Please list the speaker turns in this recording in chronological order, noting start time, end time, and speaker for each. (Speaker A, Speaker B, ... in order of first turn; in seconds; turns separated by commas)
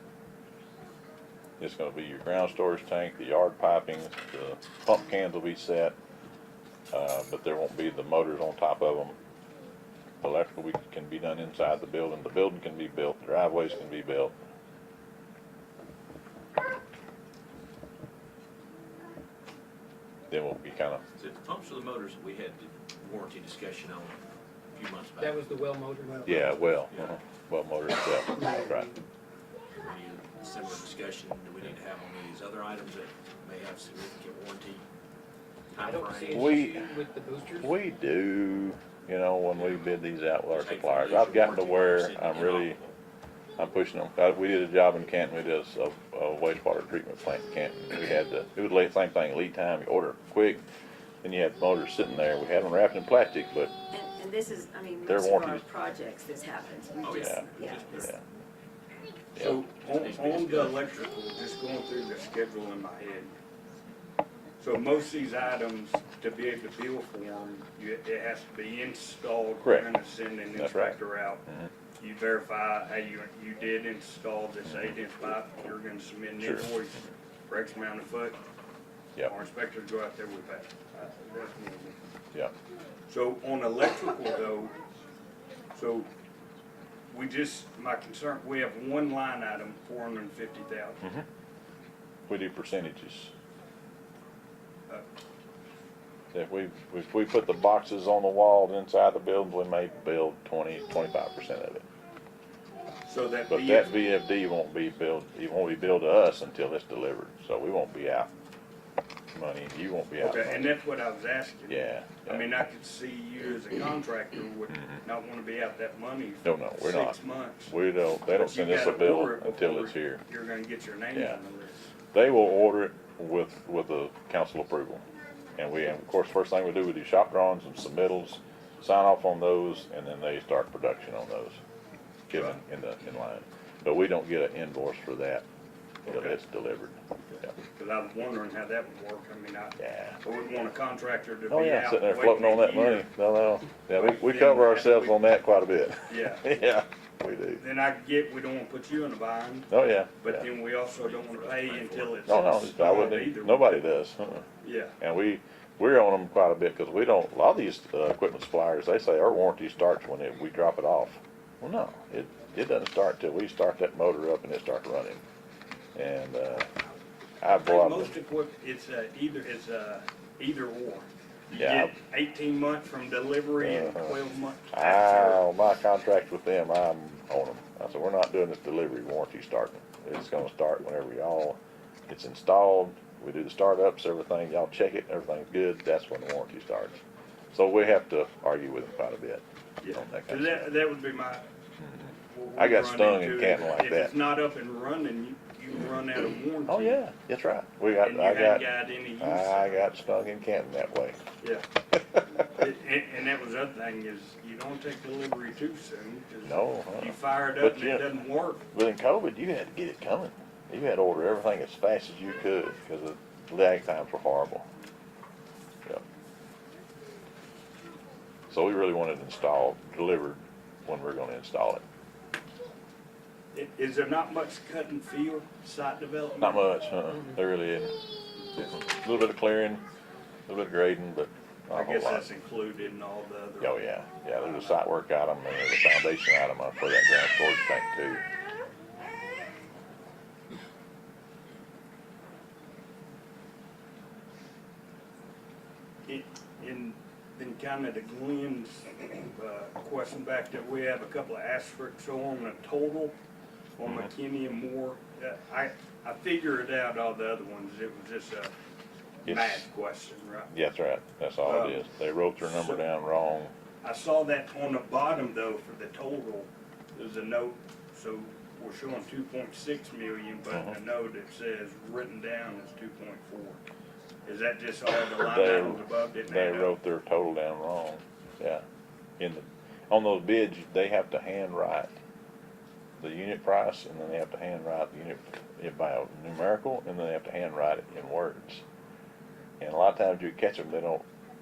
Speaker A: 1.6-6.0, Speaker A: 6.9-9.2, Speaker A: 10.2-14.3, Speaker A: 20.3-21.0, Speaker B: 21.1-24.2, Speaker B: 24.7-25.4, Speaker C: 25.2-26.6, Speaker A: 26.2-28.9, Speaker B: 26.9-27.2, Speaker C: 28.4-28.7, Speaker B: 29.8-34.9, Speaker B: 35.8-36.6, Speaker C: 35.8-37.7, Speaker A: 36.3-36.9, Speaker A: 37.6-42.8, Speaker B: 39.5-39.9, Speaker B: 40.5-43.0, Speaker A: 43.6-50.6, Speaker A: 51.2-53.7, Speaker D: 53.9-58.1, Speaker A: 55.0-55.7, Speaker B: 57.0-58.1, Speaker A: 57.2-58.2, Speaker E: 59.4-63.3, Speaker B: 59.8-61.1, Speaker E: 64.6-71.5, Speaker A: 69.6-69.9, Speaker A: 70.5-71.7, Speaker E: 72.0-78.4, Speaker A: 74.7-75.0, Speaker A: 76.4-76.8, Speaker E: 79.3-82.0, Speaker E: 83.1-84.8, Speaker E: 85.7-86.1, Speaker E: 87.1-91.0, Speaker A: 92.3-93.3, Speaker A: 96.3-101.8, Speaker E: 103.1-104.0, Speaker A: 103.5-108.3, Speaker A: 109.3-110.7, Speaker E: 110.2-117.7, Speaker A: 111.7-112.5, Speaker A: 114.7-115.0, Speaker A: 116.5-120.2, Speaker E: 118.3-121.9, Speaker A: 121.1-121.4, Speaker A: 122.1-125.0, Speaker A: 125.6-131.6, Speaker A: 132.3-135.4, Speaker E: 132.3-132.6, Speaker E: 136.1-136.4, Speaker A: 136.1-137.5, Speaker E: 137.8-143.1, Speaker A: 139.8-140.2, Speaker A: 141.5-147.6, Speaker E: 144.0-145.2, Speaker E: 146.1-146.5, Speaker E: 147.6-149.7, Speaker A: 149.7-150.5, Speaker E: 150.2-153.8, Speaker B: 151.0-152.2, Speaker A: 152.1-154.5, Speaker E: 154.6-155.0, Speaker A: 155.0-165.2, Speaker A: 166.0-166.7, Speaker A: 167.4-168.2, Speaker E: 167.5-175.4, Speaker A: 171.5-171.9, Speaker A: 173.6-174.2, Speaker A: 174.7-187.0, Speaker A: 187.5-189.4, Speaker E: 189.8-191.4, Speaker A: 189.9-190.8, Speaker A: 191.8-194.2, Speaker E: 192.3-197.0, Speaker A: 196.7-201.2, Speaker E: 198.0-199.9, Speaker E: 201.4-201.7, Speaker A: 201.9-202.2, Speaker E: 202.4-208.6, Speaker A: 206.4-208.1, Speaker A: 208.7-214.7, Speaker A: 218.5-221.8, Speaker E: 223.5-226.8, Speaker A: 226.4-228.0, Speaker A: 228.6-229.8, Speaker A: 230.5-232.3, Speaker E: 231.7-233.8, Speaker A: 233.6-238.2, Speaker E: 234.3-234.8, Speaker E: 246.1-253.2, Speaker E: 253.8-258.5, Speaker A: 253.8-254.1, Speaker E: 259.2-260.5, Speaker A: 259.3-259.7, Speaker A: 260.5-263.5, Speaker E: 261.4-261.9, Speaker E: 262.4-262.9, Speaker E: 263.8-273.6, Speaker A: 270.5-270.8, Speaker E: 274.2-276.8, Speaker A: 275.1-278.6, Speaker A: 279.2-281.9, Speaker A: 283.0-288.6, Speaker A: 289.6-291.1